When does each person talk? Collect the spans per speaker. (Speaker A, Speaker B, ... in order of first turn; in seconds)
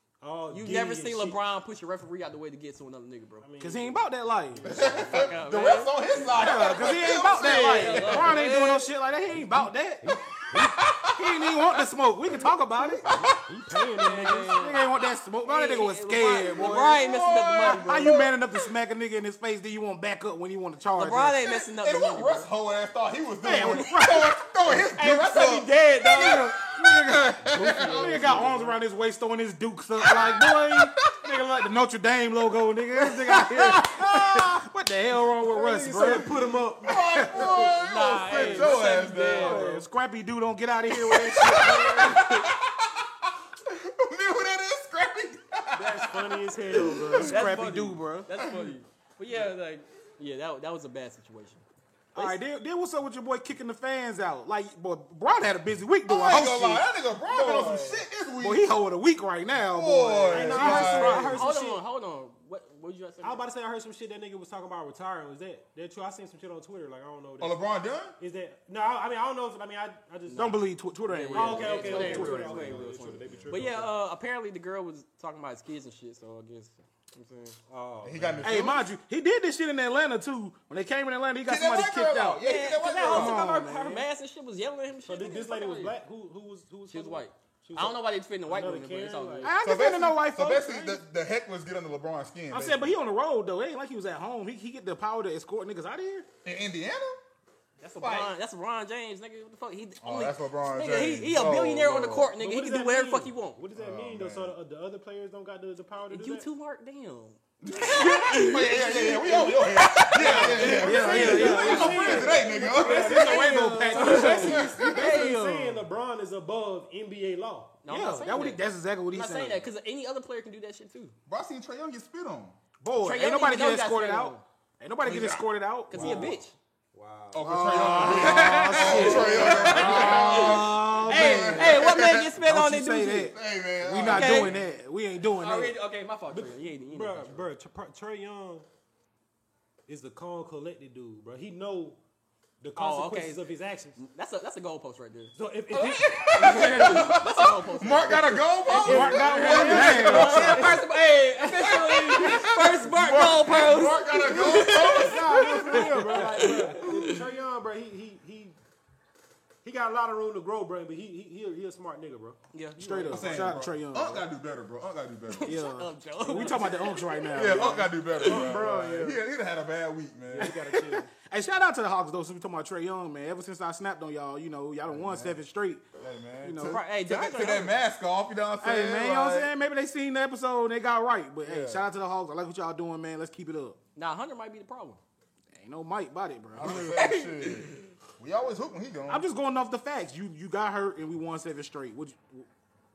Speaker A: 0.2-1.4, 3.4-5.1, 10.0-10.8, 13.0-14.7, 24.9-26.5, 27.5-28.8, 35.5-37.7, 38.2-38.7, 39.3-39.8, 45.7-47.6, 60.3-61.8, 63.2-67.6, 68.2-70.6, 71.3-73.9, 77.7-78.7, 85.1-89.5, 102.4-106.5, 110.2-117.8, 126.9-127.4, 128.0-130.2, 136.3-138.7, 139.9-142.0, 142.6-144.0, 145.3-147.0, 148.9-152.5, 154.3-158.6, 159.6-163.6, 167.7-169.2, 170.3-171.1
Speaker B: 0.5-3.5, 4.9-8.9, 14.0-14.9, 15.4-18.2, 21.0-22.5, 25.0-25.4, 37.5-39.7, 41.9-42.5, 47.2-51.6, 61.3-63.4, 70.3-77.5, 82.4-85.9, 86.9-89.5, 97.8-103.6, 106.1-112.5, 113.2-115.4, 117.8-121.1, 123.0-124.4, 125.9-126.5, 128.1-133.3, 134.0-134.6, 135.3-137.5, 142.8-143.4, 144.0-157.2, 162.5-163.1, 165.3-168.6, 176.6-177.7, 183.9-185.0, 187.0-187.5
Speaker C: 3.6-5.0, 6.2-10.1, 11.1-13.1, 14.5-17.0, 17.6-21.4, 23.4-24.4, 26.2-37.7, 38.3-42.2, 47.1-48.3, 52.1-61.4, 70.3-72.8, 78.4-84.0, 89.4-91.0, 92.5-96.2, 110.1-115.8, 117.9-119.6, 122.8-126.3, 127.4-135.7, 148.7-150.7, 155.3-156.7, 162.8-164.3, 165.4-167.9, 170.4-175.8, 176.4-176.8, 178.6-183.8, 185.5-187.2, 189.1-192.5
Speaker D: 4.6-8.4, 10.4-11.8, 16.4-18.3, 21.4-28.6, 30.0-30.9, 33.0-34.4, 36.8-39.8, 40.9-43.1, 43.6-47.3, 48.4-48.7, 56.1-58.7, 59.6-61.4, 67.4-68.1, 71.9-73.6, 78.0-78.9, 81.4-83.5, 89.6-92.9, 96.4-97.2, 98.0-98.3, 100.0-102.3, 103.7-104.5, 107.6-113.5, 114.4-114.8, 121.3-122.6, 125.0-126.3, 127.3-132.3, 133.3-134.6, 145.8-150.8, 152.1-157.2, 163.1-165.6, 167.3-170.5, 174.9-175.4, 176.0-179.5, 181.4-181.9, 186.5-189.2